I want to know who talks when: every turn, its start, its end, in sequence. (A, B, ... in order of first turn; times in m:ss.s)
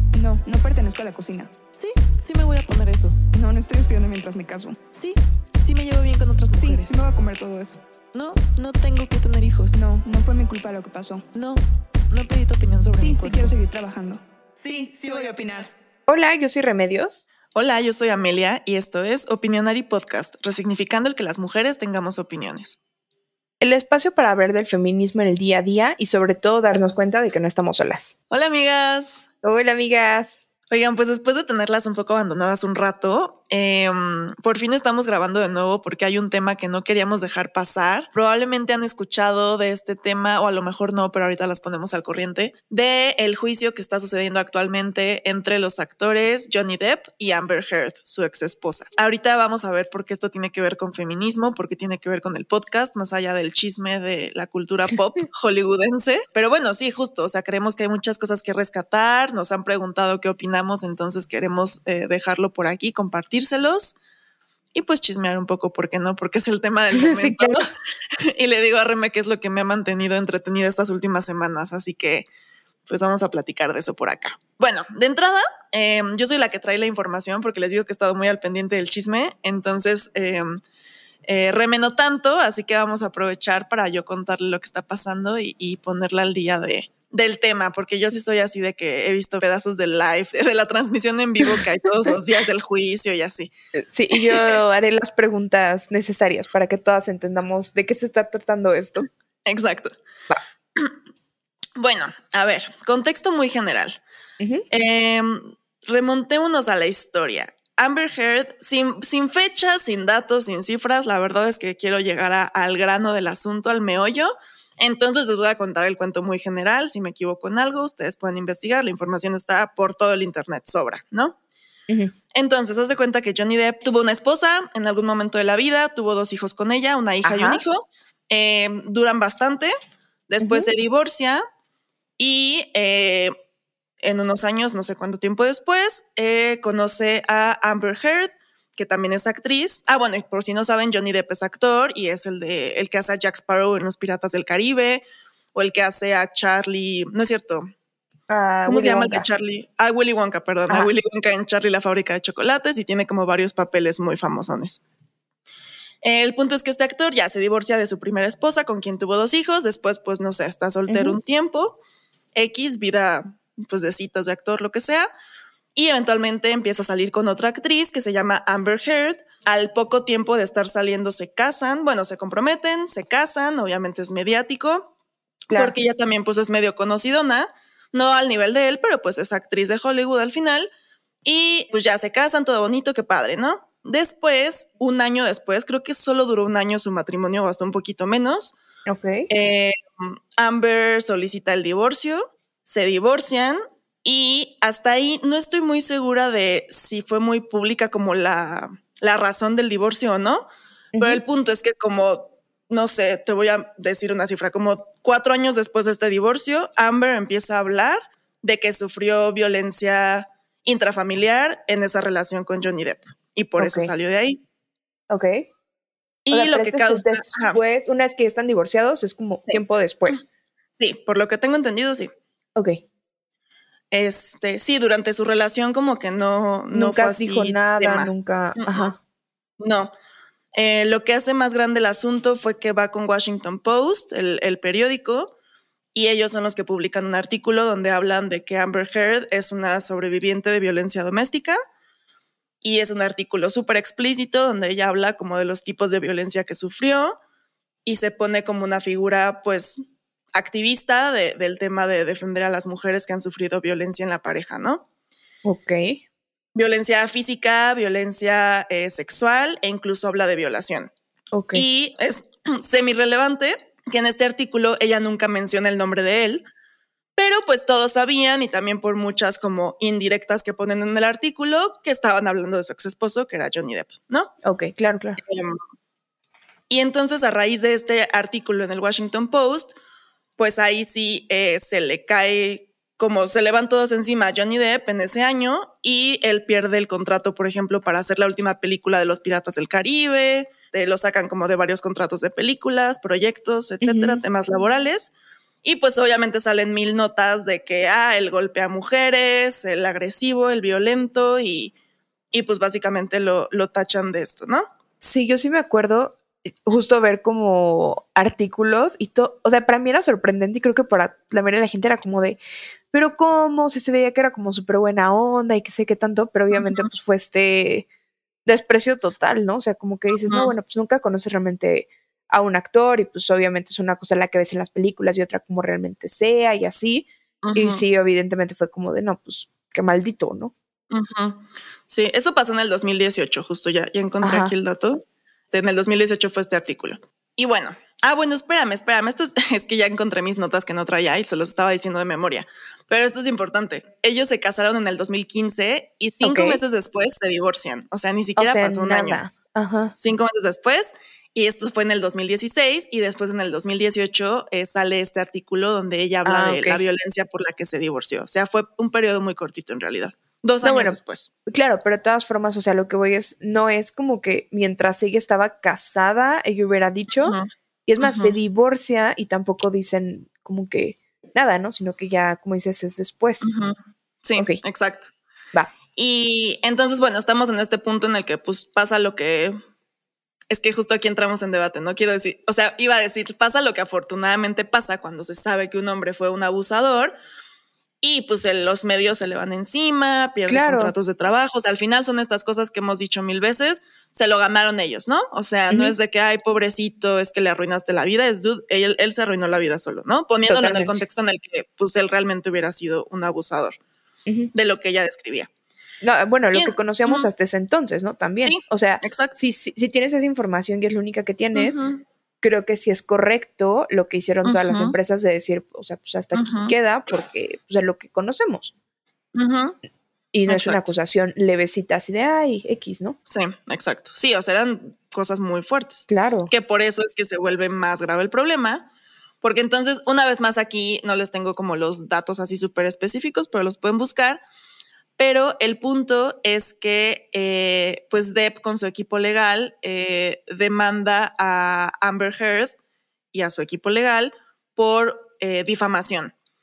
0:00.1-0:01.5 A
0:01.8-0:03.2 B
0:03.3-0:04.8 A
0:04.9-0:07.0 B
0:06.6-0:07.8 A
0:08.1-0:09.8 B
0:09.7-0:11.3 A
0:11.3-0:13.6 B
0:13.0-0:15.7 A
0:14.7-0:15.3 B
0:16.1-0:17.2 C
0:17.6-0:22.8 B
0:23.6-0:28.1 C
0:28.3-0:29.3 B
0:29.4-0:30.4 C
0:30.7-1:04.0 B
1:04.7-1:07.7 B
1:06.9-1:07.7 C
1:08.2-1:12.3 B
1:12.9-1:20.6 B
1:21.2-1:33.5 B
1:33.8-1:39.1 C
1:34.2-1:34.6 B
1:39.5-1:39.9 B
1:41.8-1:44.0 B
1:44.4-1:44.6 C
1:44.7-2:01.4 B
2:02.3-2:09.7 B
2:07.2-2:07.6 C
2:10.3-2:11.4 B
2:10.4-2:10.7 C
2:12.2-2:13.3 B
2:14.0-2:27.7 B
2:28.3-2:29.3 C
2:28.7-2:34.8 B
2:36.0-2:41.8 B
2:40.9-2:41.2 C
2:42.4-2:45.1 B
2:45.8-2:54.9 B
2:55.5-2:55.8 C
2:55.5-3:00.7 B
3:01.2-3:08.6 B
3:08.9-3:09.3 C
3:09.3-3:20.4 B
3:21.0-3:21.2 C
3:21.0-3:34.4 B
3:33.6-3:33.9 C
3:35.1-3:35.5 C
3:36.3-3:37.6 B
3:36.3-3:40.3 C
3:40.8-3:42.1 B
3:43.9-3:48.9 B
3:46.7-3:49.0 C
3:49.6-3:49.9 B
3:50.5-3:55.3 B
3:55.9-4:01.6 B
4:02.6-4:07.2 B
4:07.8-4:09.8 B
4:10.3-4:14.8 B
4:15.4-4:16.0 C
4:16.6-4:20.9 B
4:21.3-4:21.6 C
4:21.6-4:26.5 B
4:27.2-4:34.3 B
4:34.4-4:35.2 C
4:35.2-4:35.6 B
4:36.7-4:39.8 B
4:40.4-4:55.1 B
4:53.8-4:54.2 C
4:55.6-5:01.7 B
5:02.3-5:04.6 B
5:05.0-5:12.4 C
5:12.9-5:17.9 C
5:16.5-5:16.9 B
5:18.5-5:30.5 C
5:20.3-5:20.5 B
5:27.4-5:27.8 B
5:30.9-5:49.2 B
5:34.2-5:34.5 C
5:46.2-5:46.6 C
5:48.4-5:50.0 C
5:50.0-6:01.3 B
5:56.2-5:56.8 C
6:00.6-6:07.4 C
6:07.9-6:13.5 C
6:08.0-6:08.4 B
6:13.4-6:15.1 B
6:16.0-6:19.6 B
6:20.5-6:27.2 B
6:28.0-6:43.8 B
6:30.5-6:30.9 C
6:35.7-6:36.0 C
6:40.5-6:41.0 C
6:44.5-6:45.5 B
6:46.0-6:51.8 C
6:46.5-6:47.3 B
6:48.4-6:49.4 B
6:51.6-6:52.0 B
6:52.4-6:58.7 C
6:54.4-6:55.0 B
6:56.3-6:56.7 B
6:59.4-6:59.8 B
7:00.3-7:03.2 C
7:00.5-7:00.9 B
7:03.3-7:08.9 B
7:06.1-7:06.5 C
7:09.4-7:14.4 B
7:15.2-7:22.8 B
7:23.3-7:26.3 B